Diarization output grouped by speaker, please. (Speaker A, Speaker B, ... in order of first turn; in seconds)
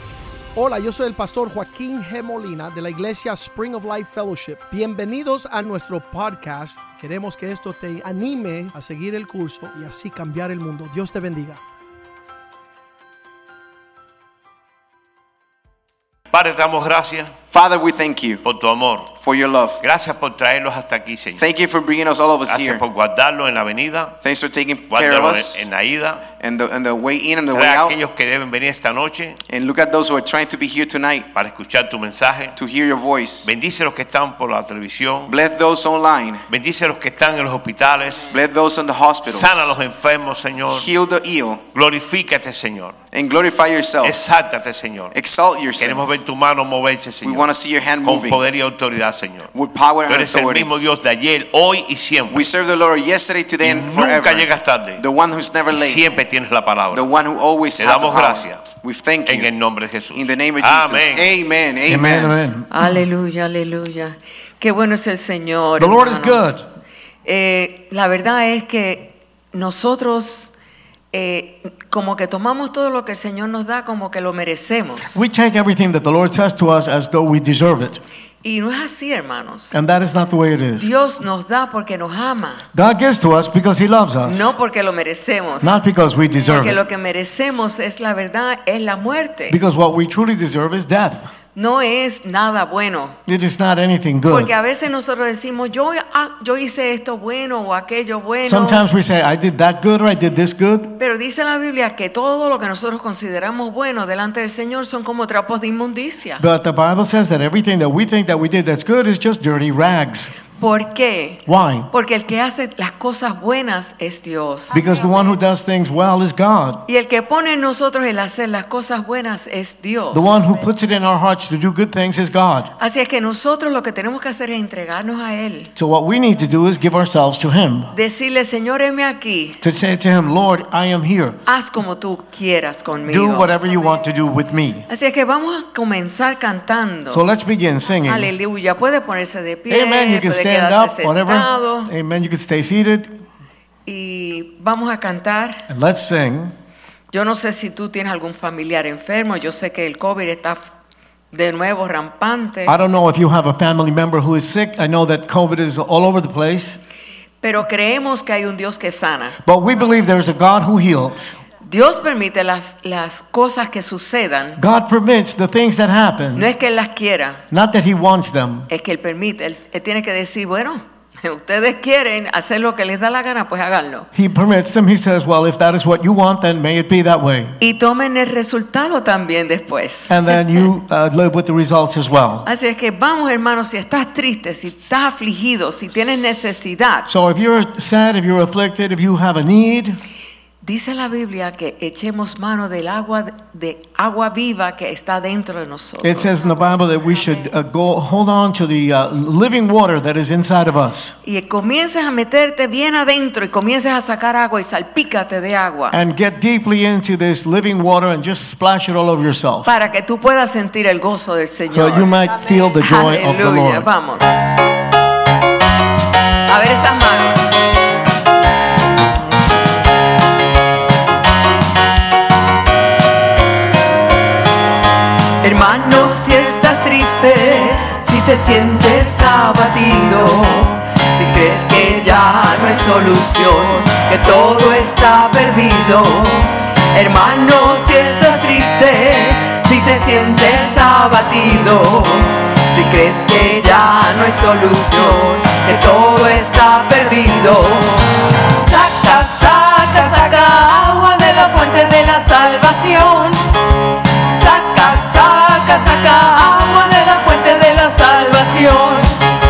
Speaker A: 0.6-11.6
Speaker B: 16.3-17.3, 18.4-19.1, 19.8-21.4, 22.5-24.1, 24.9-26.2, 27.5-29.4, 31.3-32.5, 33.4-35.3, 36.5-38.4, 39.2-40.9, 41.7-42.9, 44.0-45.1, 45.8-47.5, 48.0-49.5, 50.1-52.5, 53.6-55.0, 55.7-57.0, 57.8-58.6, 59.2-61.3
Speaker C: 17.5-18.4, 19.2-19.8, 21.4-22.8, 24.2-25.7, 26.4-27.9, 29.5-31.3, 32.5-33.5, 35.3-36.4, 38.3-39.7, 40.7-41.6, 43.1-44.2, 45.1-46.1, 47.2-48.4, 49.5-50.7, 52.3-56.0, 56.9-59.5, 60.1-62.3
Speaker D: 61.9-62.8, 65.8-66.6, 75.1-78.0, 79.7-80.9, 82.7-84.5, 85.6-86.8, 89.5-91.3, 93.3-94.5, 98.4-100.9, 106.4-110.3, 111.5-111.9, 114.7-116.8, 120.1-122.7, 125.8-127.9, 129.6-131.4, 133.1-134.9, 137.1-138.3, 139.7-143.1, 145.7-146.5, 152.7-156.8, 159.4-161.4, 164.6-166.5, 167.5-168.7, 174.1-177.6, 180.1-182.4, 187.1-190.0, 196.0-201.2, 205.9-209.7, 211.7-213.9
Speaker E: 62.7-66.5, 67.2-70.5, 71.1-75.2, 78.4-79.8, 80.8-82.7, 84.2-85.8, 86.4-89.6, 91.5-93.2, 94.3-98.8, 101.0-106.4, 110.6-114.8, 116.8-120.5, 122.8-125.7, 127.9-129.6, 131.4-133.5, 134.9-137.2, 138.1-141.9, 143.8-145.6, 147.1-150.6, 151.3-152.8, 157.4-159.3, 161.6-164.6, 166.3-167.4, 168.7-174.1, 177.6-180.6, 182.4-187.1, 190.6-196.5, 201.2-206.0, 209.6-212.1, 212.7-214.4, 216.5-217.4, 225.4-253.4, 254.2-259.1